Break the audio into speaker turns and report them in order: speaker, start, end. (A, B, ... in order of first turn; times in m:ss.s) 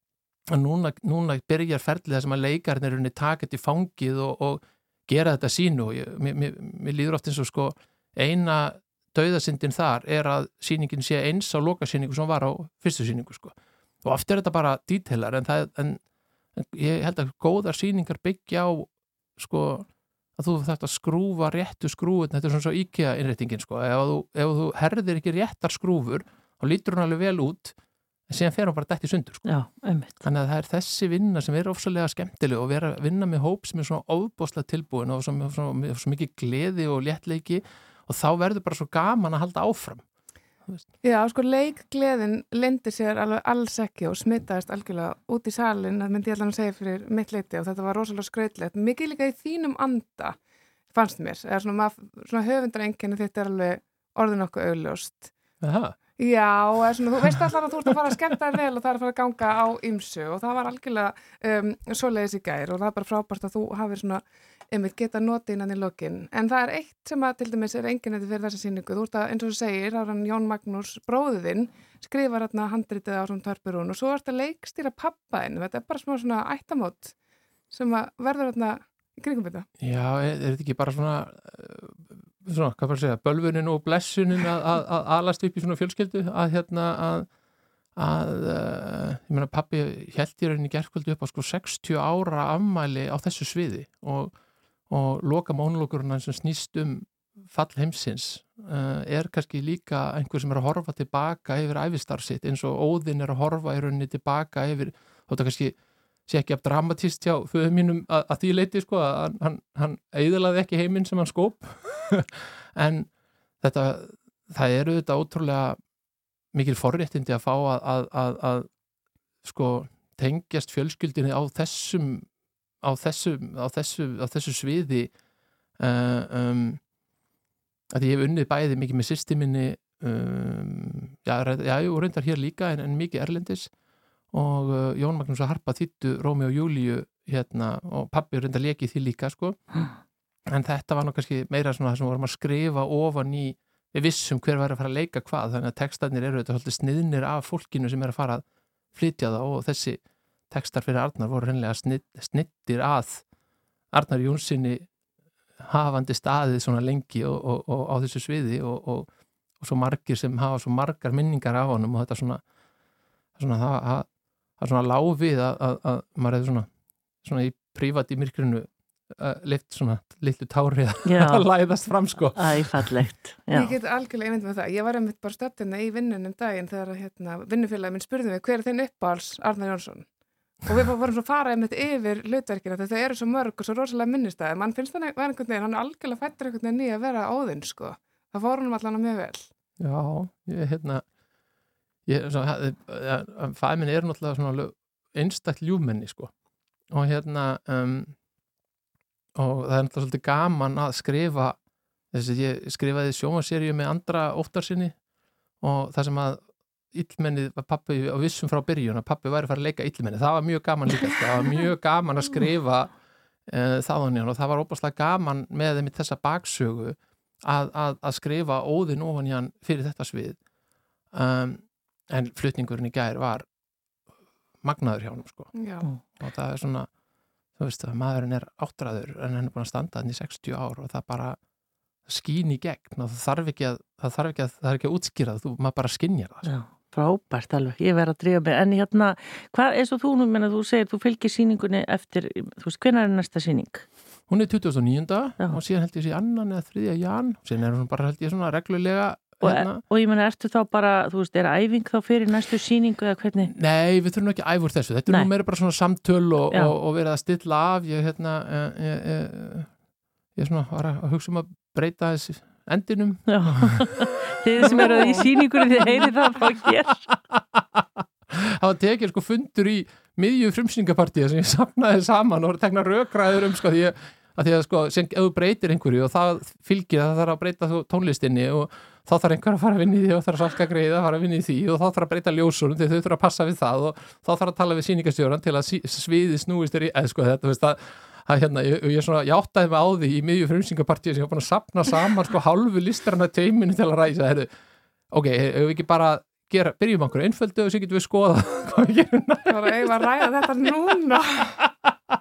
0:00.5-0:16.0 A
0:16.6-0:27.8 A
0:28.3-0:29.4 A
0:29.4-0:30.3 B
0:30.2-0:40.0 A
0:41.0-0:50.4 C
0:50.9-0:55.3 C
0:55.6-0:56.0 A
0:56.2-1:17.1 C
0:57.2-0:58.0 A
1:17.7-1:19.7 C
1:19.8-1:27.3 A
1:28.0-1:34.3 A
1:34.9-1:45.7 A
1:46.3-1:53.1 A
1:53.6-1:55.8 A
1:56.5-1:58.7 A
1:59.4-2:02.3 A
2:02.8-2:05.1 A
2:05.8-2:06.8 A
2:07.9-2:13.7 A
2:14.3-2:19.6 A
2:20.5-2:33.2 A
2:33.9-2:34.8 A
2:35.6-2:39.1 A
2:39.6-2:42.4 A
2:43.4-2:44.1 A
2:44.6-2:46.7 A
2:47.2-2:53.0 A
2:51.0-2:51.5 B
2:52.3-2:53.7 B
2:53.5-3:00.1 C
3:00.7-3:09.5 C
3:09.8-3:11.0 A
3:12.0-3:16.3 A
3:16.9-3:18.1 A
3:19.4-3:21.6 A
3:22.1-3:24.9 A
3:25.6-3:26.4 A
3:26.9-3:32.9 A
3:33.5-3:40.4 A
3:41.1-3:43.4 A
3:44.6-3:45.5 A
3:45.5-3:45.9 C
3:46.0-3:46.9 A
3:47.6-3:51.4 A
3:52.0-3:56.5 A
3:56.4-4:03.8 B
4:04.3-4:09.8 A
4:09.4-4:13.5 B
4:13.4-4:19.7 A
4:15.1-4:15.3 B
4:16.5-4:16.8 B
4:20.4-4:54.5 A
4:23.3-4:27.0 B
4:24.9-4:25.2 C
4:55.1-5:00.2 A
4:59.5-5:01.6 C
5:01.6-5:01.8 A